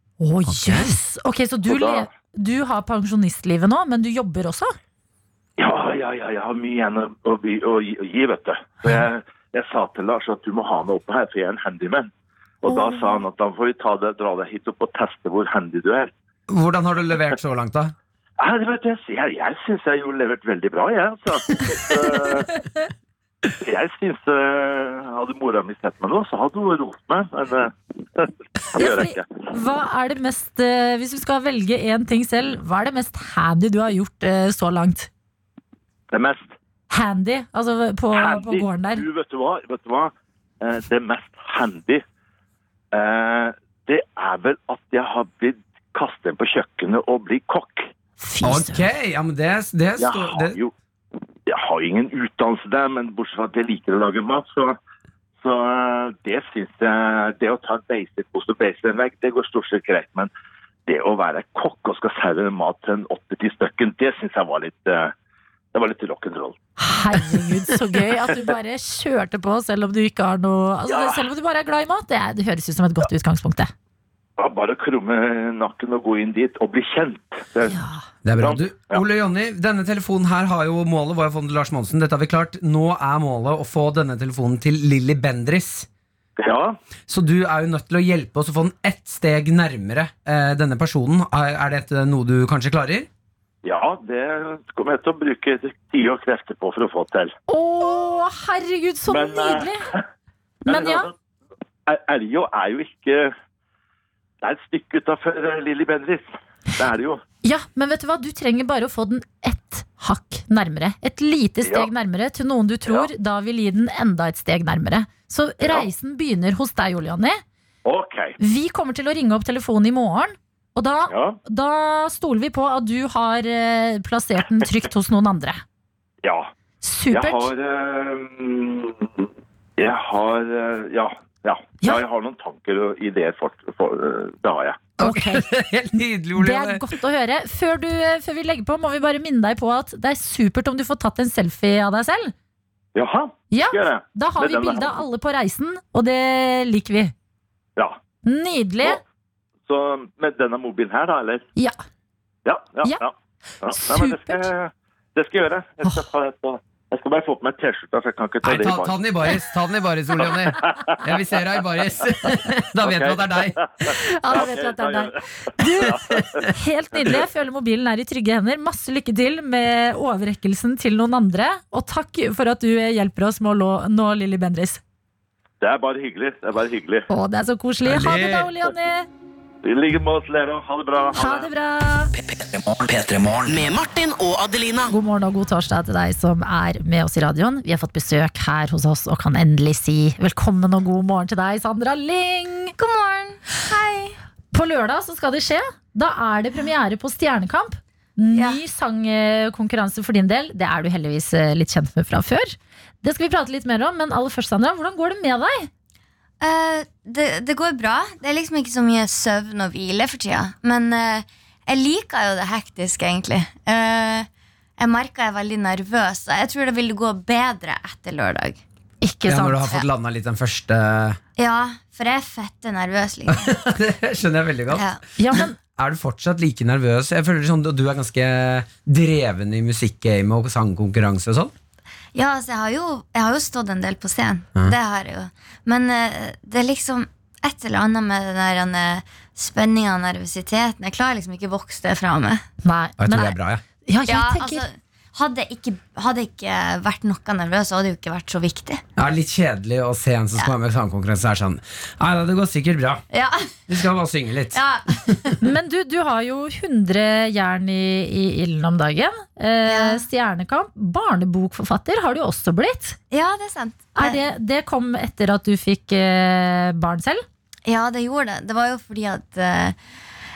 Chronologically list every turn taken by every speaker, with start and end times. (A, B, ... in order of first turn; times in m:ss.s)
0:00.2-0:04.7 A
0:00.5-0:00.9 B
0:01.7-0:02.1 C
0:05.6-0:12.1 C
0:12.6-0:16.1 C
0:12.7-0:13.2 A
0:16.5-0:17.9 B
0:18.4-0:22.5 C
0:23.6-0:29.3 C
0:28.7-0:35.1 A
0:36.1-0:36.5 C
0:36.9-0:39.0 A
0:38.1-0:42.0 C
0:42.9-0:47.9 C
0:48.2-0:48.9 A
0:48.4-0:50.6 B
0:50.0-0:50.7 C
0:51.5-0:54.8 C
0:55.4-1:00.3 C
1:00.9-1:05.1 C
1:05.7-1:06.6 C
1:06.8-1:13.7 A
1:10.9-1:11.2 C
1:14.4-1:17.8 C
1:17.7-1:18.0 A
1:18.2-1:25.9 B
1:18.4-1:19.0 C
1:26.4-1:26.8 C
1:27.1-1:33.1 B
1:33.6-1:37.3 C
1:37.5-1:39.8 A
1:39.1-1:40.0 C
1:40.6-1:41.1 C
1:40.6-1:41.1 A
1:41.9-1:43.3 C
1:44.4-1:47.2 C
1:47.4-1:57.4 A
1:51.6-1:51.9 C
1:57.8-1:58.4 C
1:58.4-2:05.6 A
2:01.1-2:01.4 C
2:06.2-2:06.5 C
2:06.8-2:07.5 A
2:07.1-2:14.8 C
2:15.0-2:16.8 B
2:15.0-2:15.5 A
2:16.4-2:22.3 A
2:22.9-2:25.0 C
2:23.5-2:27.1 A
2:28.2-2:29.0 A
2:29.7-2:31.4 C
2:32.4-2:39.0 C
2:33.7-2:34.4 A
2:38.4-2:43.6 B
2:40.2-2:41.0 C
2:42.8-2:45.2 C
2:43.8-2:54.8 A
2:45.8-2:46.4 C
2:55.6-2:57.0 C
2:57.1-2:59.1 A
2:57.8-2:58.5 B
2:59.6-3:01.5 C
3:01.1-3:02.1 A
3:02.1-3:04.9 D
3:04.9-3:12.7 A
3:12.8-3:14.2 E
3:14.5-3:25.7 A
3:18.3-3:18.6 E
3:26.4-3:38.6 E
3:39.0-3:39.7 A
3:39.3-3:41.2 B
3:41.4-3:43.5 E
3:43.3-3:44.8 B
3:44.7-3:45.0 E
3:45.2-3:45.6 A
3:45.8-3:51.5 B
3:52.1-4:02.4 E
4:02.6-4:04.6 A
4:03.0-4:03.6 B
4:04.1-4:08.8 E
4:09.0-4:13.0 B
4:13.1-4:13.5 E
4:13.7-4:14.6 B
4:14.5-4:15.3 E
4:15.4-4:23.0 A
4:19.6-4:20.0 E
4:23.1-4:24.2 E
4:23.9-4:27.2 A
4:27.6-4:29.8 E